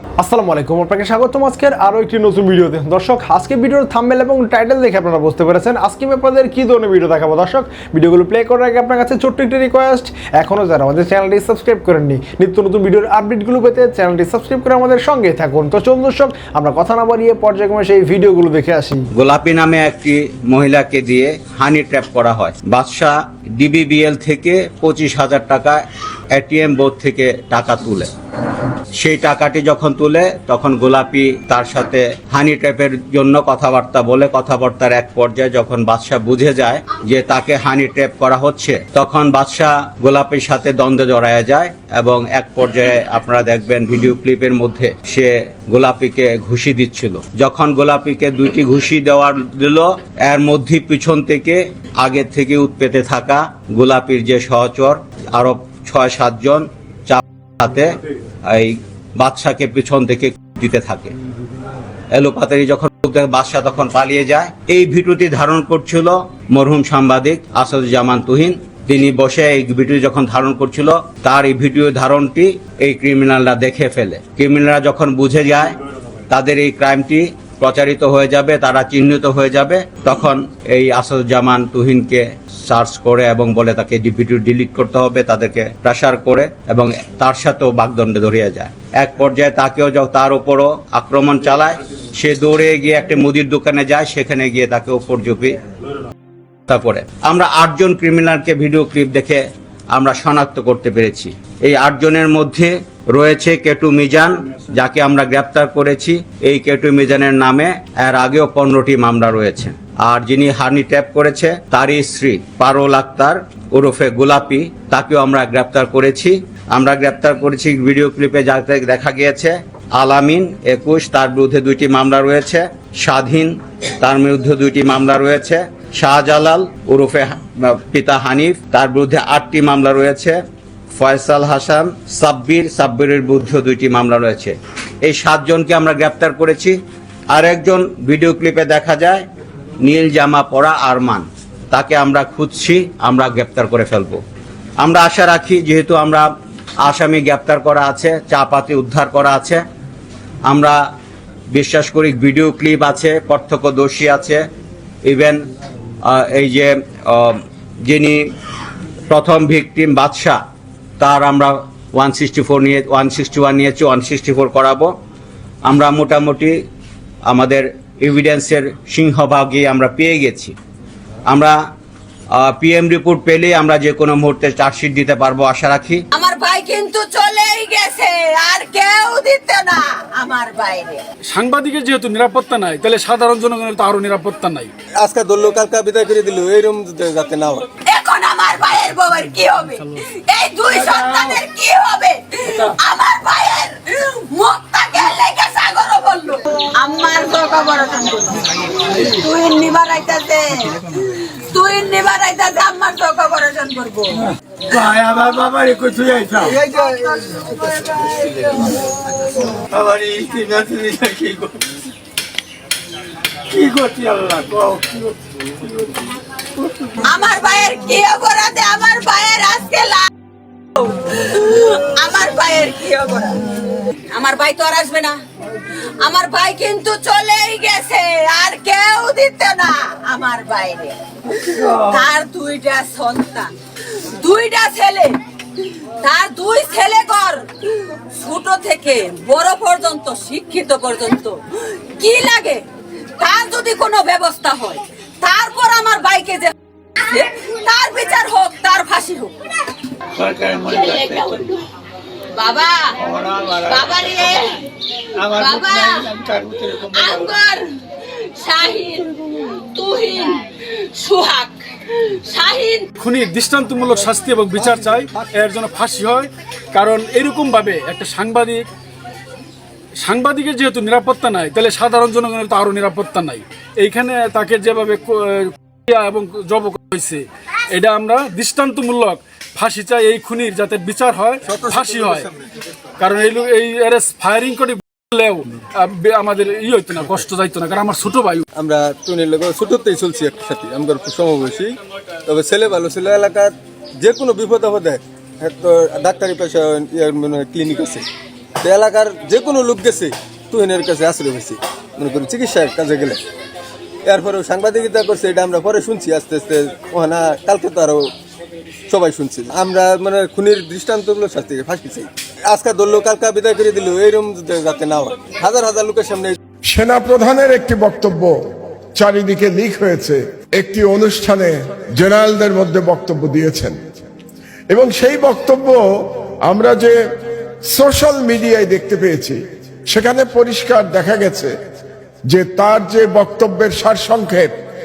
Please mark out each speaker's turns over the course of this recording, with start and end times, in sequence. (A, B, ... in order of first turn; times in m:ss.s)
0:00.2-0:19.1 A
0:19.2-0:25.8 B
0:26.3-0:28.1 B
0:29.0-0:57.9 B
0:58.5-1:01.1 B
1:02.1-1:15.8 B
1:16.3-1:35.6 B
1:36.7-1:39.4 B
1:39.9-2:10.4 B
2:10.9-2:16.8 B
2:17.3-2:19.3 B
2:19.8-2:24.2 B
2:24.8-2:26.3 B
2:26.8-2:29.6 B
2:30.5-2:30.8 B
2:31.5-2:34.4 B
2:35.0-2:35.4 B
2:36.0-2:38.2 B
2:39.1-2:40.4 B
2:41.0-2:44.9 B
2:45.6-2:46.6 B
2:47.3-2:50.6 B
2:51.3-2:51.6 B
2:52.3-2:56.0 B
2:56.1-3:01.0 C
3:01.3-3:04.7 D
3:05.0-3:07.7 E
3:07.8-3:25.0 C
3:24.7-3:26.6 F
3:26.3-3:28.6 C
3:29.6-3:31.6 F
3:33.5-3:35.1 F
3:37.0-3:40.1 C
3:40.8-3:43.4 C
3:44.1-3:45.2 C
3:46.0-3:55.2 C
3:56.0-4:01.4 C
4:02.0-4:02.6 C
4:03.2-4:06.5 C
4:07.1-4:09.3 C
4:10.2-4:11.4 F
4:10.5-4:11.6 C
4:12.4-4:14.6 C
4:13.0-4:14.0 F
4:15.2-4:17.7 C
4:15.2-4:17.2 F
4:18.4-4:22.9 C
4:23.0-4:28.7 D
4:30.0-4:42.3 D
4:41.5-4:42.5 E
4:43.0-4:48.4 D
4:48.6-4:58.1 E
4:58.6-5:03.2 E
5:04.1-5:08.1 E
5:08.9-5:16.4 E
5:16.7-5:18.4 G
5:19.0-5:23.8 G
5:24.7-5:25.8 G
5:26.5-5:27.0 G
5:27.7-5:31.5 G
5:32.3-5:34.5 G